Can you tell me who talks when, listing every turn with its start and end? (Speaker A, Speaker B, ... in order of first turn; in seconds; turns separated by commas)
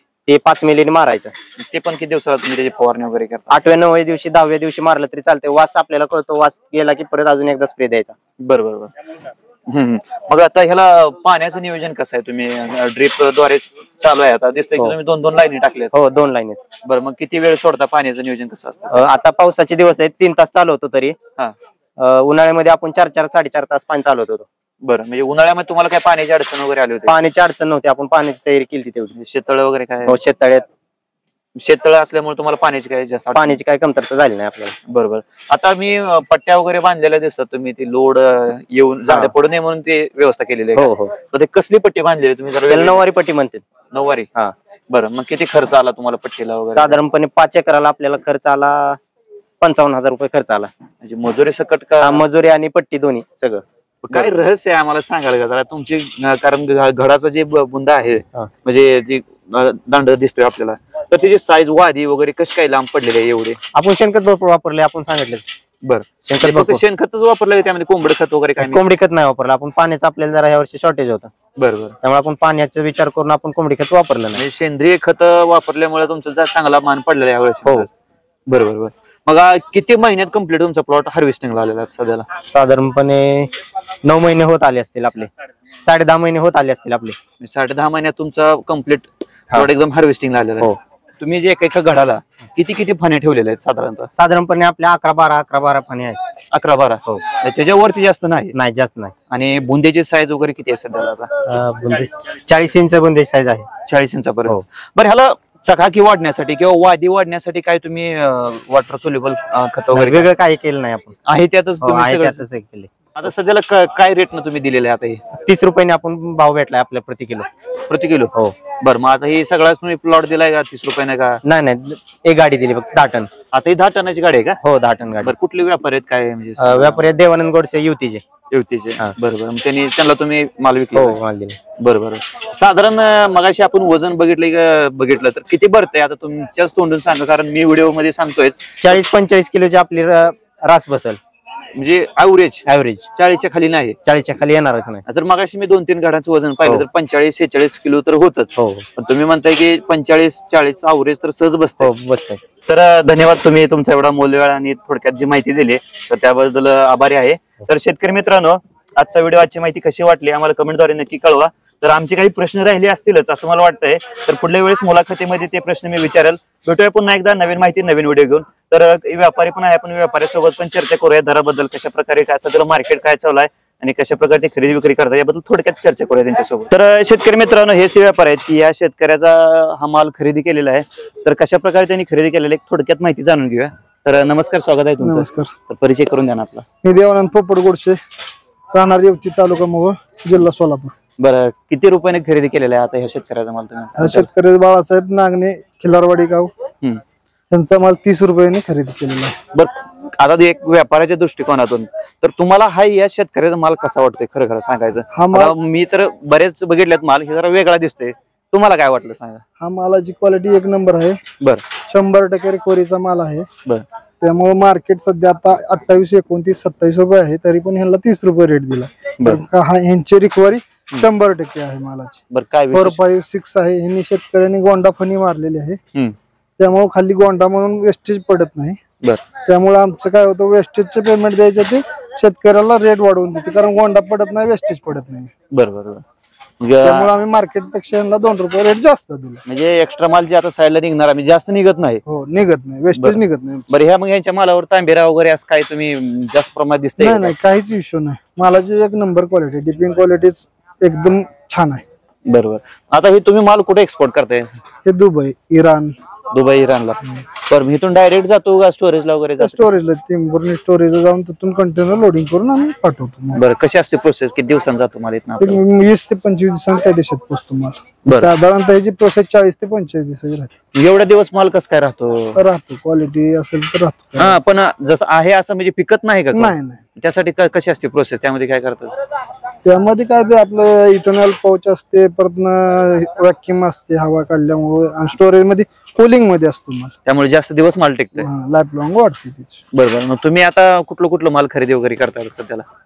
Speaker A: 0.3-1.3, Speaker B: 1.6-3.5, Speaker A: 3.5-8.2, Speaker B: 8.4-8.9, Speaker B: 9.7-15.9, Speaker A: 15.9-16.6, Speaker B: 16.9-19.0, Speaker A: 18.9-21.2, Speaker A: 22.0-24.5, Speaker B: 24.8-27.2, Speaker A: 27.1-29.1, Speaker B: 29.2-30.2, Speaker A: 30.1-30.6, Speaker B: 31.6-33.6, Speaker A: 33.3-34.8, Speaker B: 34.9-43.0, Speaker A: 39.1-39.3, Speaker A: 40.8-41.1, Speaker A: 42.7-43.6, Speaker B: 43.9-44.3, Speaker B: 44.9-47.0, Speaker A: 46.7-49.0, Speaker A: 49.6-50.7, Speaker B: 51.0-52.2, Speaker A: 52.0-54.3, Speaker B: 54.0-63.6, Speaker A: 63.7-65.5, Speaker B: 65.8-68.9, Speaker A: 66.2-66.8, Speaker A: 68.6-71.3, Speaker B: 71.6-72.0, Speaker A: 72.0-74.4, Speaker B: 74.3-77.9, Speaker B: 78.5-82.3, Speaker A: 82.4-83.5, Speaker A: 84.0-87.2, Speaker B: 87.4-94.1, Speaker A: 94.1-96.2, Speaker B: 96.5-98.5, Speaker A: 98.5-99.1, Speaker B: 99.3-101.3, Speaker A: 101.5-103.7, Speaker B: 103.9-110.3, Speaker A: 109.9-111.2, Speaker B: 111.3-112.4, Speaker A: 111.8-112.9, Speaker B: 113.2-115.3, Speaker A: 115.4-117.5, Speaker B: 117.9-121.4, Speaker A: 121.5-123.3, Speaker B: 123.5-124.6, Speaker A: 124.6-125.3, Speaker B: 125.2-127.1, Speaker A: 126.6-128.2, Speaker B: 128.5-131.2, Speaker A: 130.9-131.6, Speaker B: 131.8-138.9, Speaker A: 138.8-141.2, Speaker B: 141.7-144.0, Speaker A: 142.7-143.1, Speaker A: 144.1-145.0, Speaker B: 145.1-151.9, Speaker A: 148.6-148.9, Speaker A: 151.8-152.4, Speaker B: 152.7-186.7, Speaker C: 185.0-185.6, Speaker C: 186.8-188.0, Speaker C: 188.7-190.9, Speaker B: 191.2-194.3, Speaker C: 194.0-196.5, Speaker C: 197.5-199.4, Speaker B: 199.5-209.4, Speaker C: 205.1-205.6, Speaker C: 209.6-211.2, Speaker C: 211.9-213.5, Speaker C: 214.2-225.8, Speaker B: 222.3-223.0, Speaker C: 226.6-228.8, Speaker C: 229.4-235.3, Speaker B: 235.5-236.0, Speaker B: 236.6-237.1, Speaker C: 236.8-239.4, Speaker B: 239.5-242.0, Speaker C: 242.1-243.7, Speaker B: 242.9-247.3, Speaker C: 247.0-251.8, Speaker B: 252.3-254.6, Speaker C: 254.8-256.0, Speaker B: 256.3-259.8, Speaker C: 259.4-263.4, Speaker B: 263.3-265.6, Speaker C: 265.4-270.5, Speaker B: 268.1-268.3, Speaker B: 270.7-272.4, Speaker C: 272.4-274.4, Speaker B: 274.2-278.9, Speaker C: 276.3-276.8, Speaker C: 279.6-286.9, Speaker B: 287.1-288.3, Speaker C: 288.2-289.6, Speaker B: 289.7-292.6